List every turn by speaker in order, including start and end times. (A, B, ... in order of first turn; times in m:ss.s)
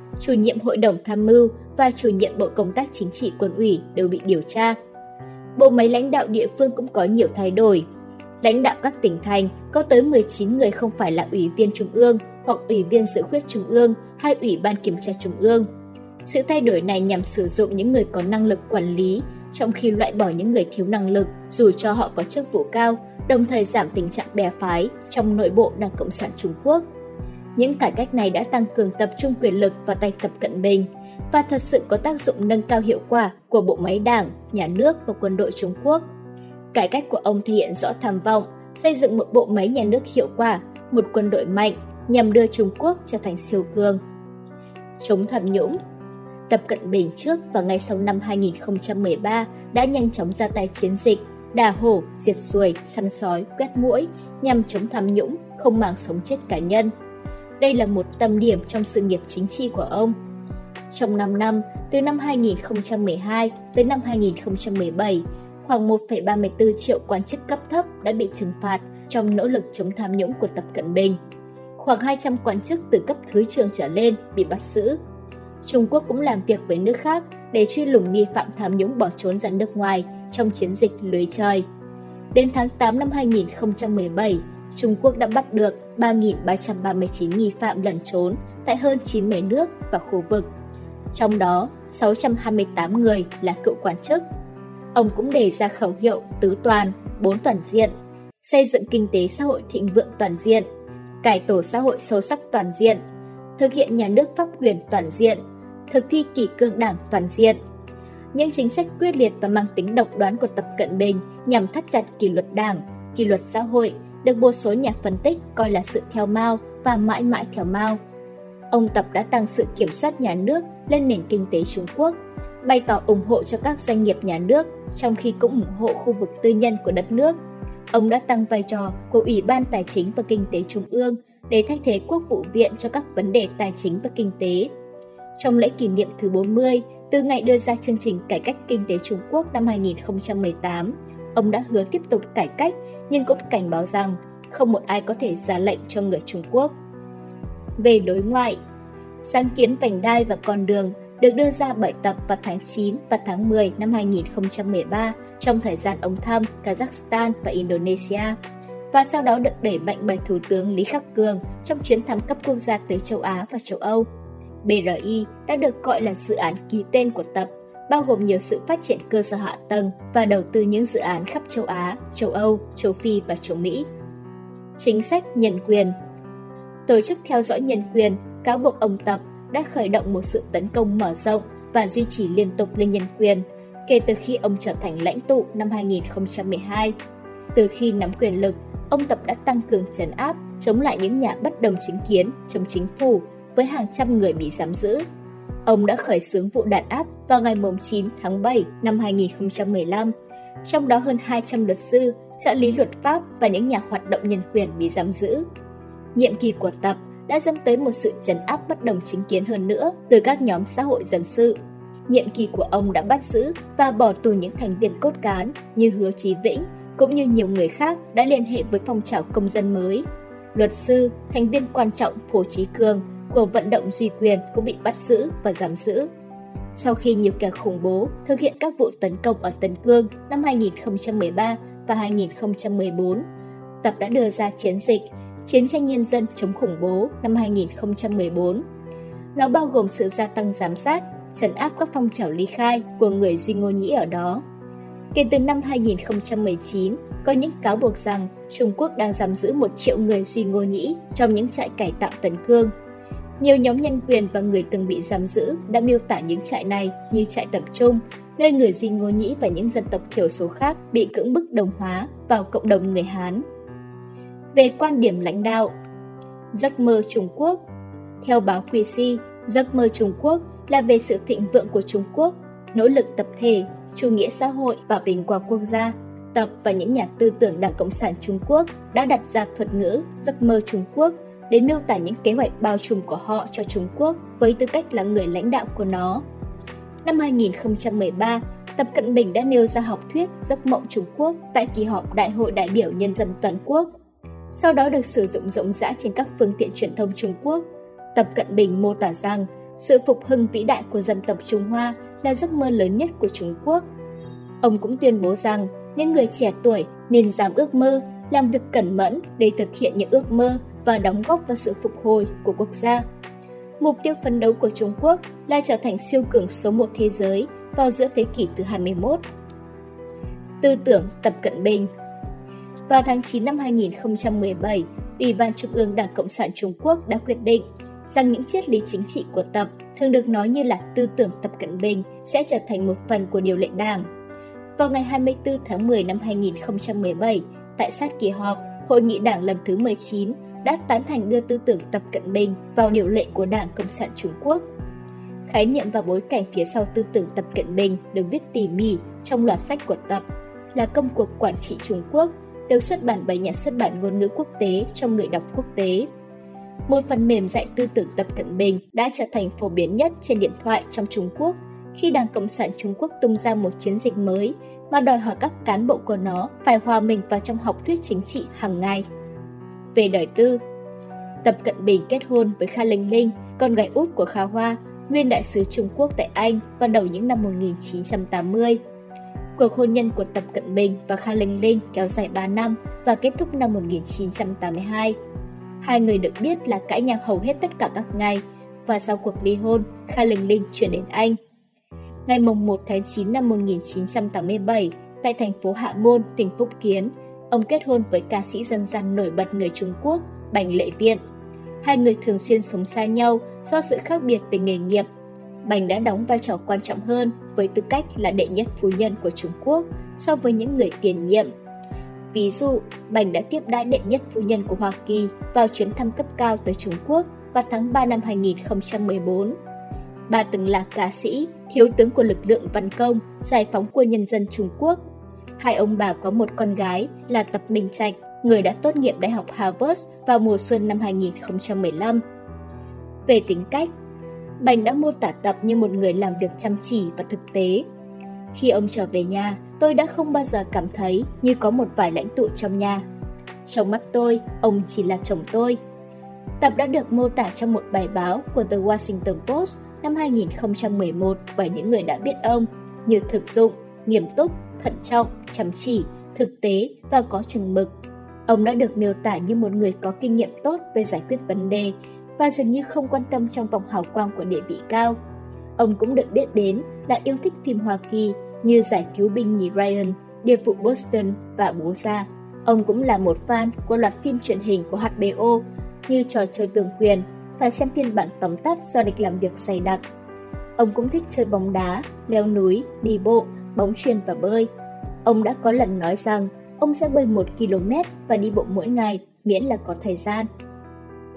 0:00.2-0:04.8 A
0:05.6-0:07.8 A
0:08.4-0:15.7 A
0:16.3-0:26.8 A
0:27.6-0:36.0 A
0:36.7-0:44.0 A
0:45.0-0:45.8 A
0:46.5-0:56.9 A
0:57.6-1:00.2 A
1:00.9-1:11.2 A
1:11.8-1:15.0 A
1:15.6-1:21.7 A
1:22.3-1:30.5 A
1:31.1-1:34.2 A
1:34.9-1:40.7 A
1:41.2-1:43.0 A
1:43.6-1:47.6 A
1:48.3-1:58.0 A
1:58.7-2:07.4 A
2:07.9-2:14.7 A
2:15.4-2:26.7 A
2:27.8-2:28.6 A
2:29.2-2:38.4 A
2:38.9-2:44.1 A
2:44.6-2:53.9 A
2:54.8-2:56.0 A
2:56.9-3:07.0 A
3:07.6-3:15.0 A
3:15.7-3:20.1 A
3:20.6-3:25.4 A
3:26.2-3:31.6 A
3:32.1-3:46.1 A
3:46.8-3:53.2 A
3:53.8-3:58.6 A
3:59.4-4:04.4 A
4:05.1-4:12.7 A
4:13.4-4:23.4 A
4:24.5-4:25.7 A
4:26.5-4:27.6 A
4:28.2-4:46.2 A
4:47.0-4:53.9 A
4:54.5-5:03.8 A
5:04.6-5:13.0 A
5:13.8-5:19.2 A
5:20.6-5:21.9 A
5:22.9-5:34.1 A
5:34.8-5:44.7 A
5:45.5-5:56.1 A
5:56.9-6:09.0 A
6:09.9-6:10.6 A
6:11.4-6:18.8 A
6:19.6-6:25.2 A
6:25.8-6:31.4 A
6:32.3-6:41.2 A
6:41.8-6:45.1 A
6:45.6-6:51.5 A
6:52.3-6:59.6 A
7:00.3-7:05.0 A
7:05.6-7:12.2 A
7:13.3-7:13.9 A
7:14.6-7:17.9 A
7:18.5-7:23.0 A
7:23.7-7:25.8 A
7:26.6-7:37.9 A
7:38.5-7:45.2 A
7:45.8-8:00.0 A
8:00.8-8:04.7 A
8:05.2-8:10.5 A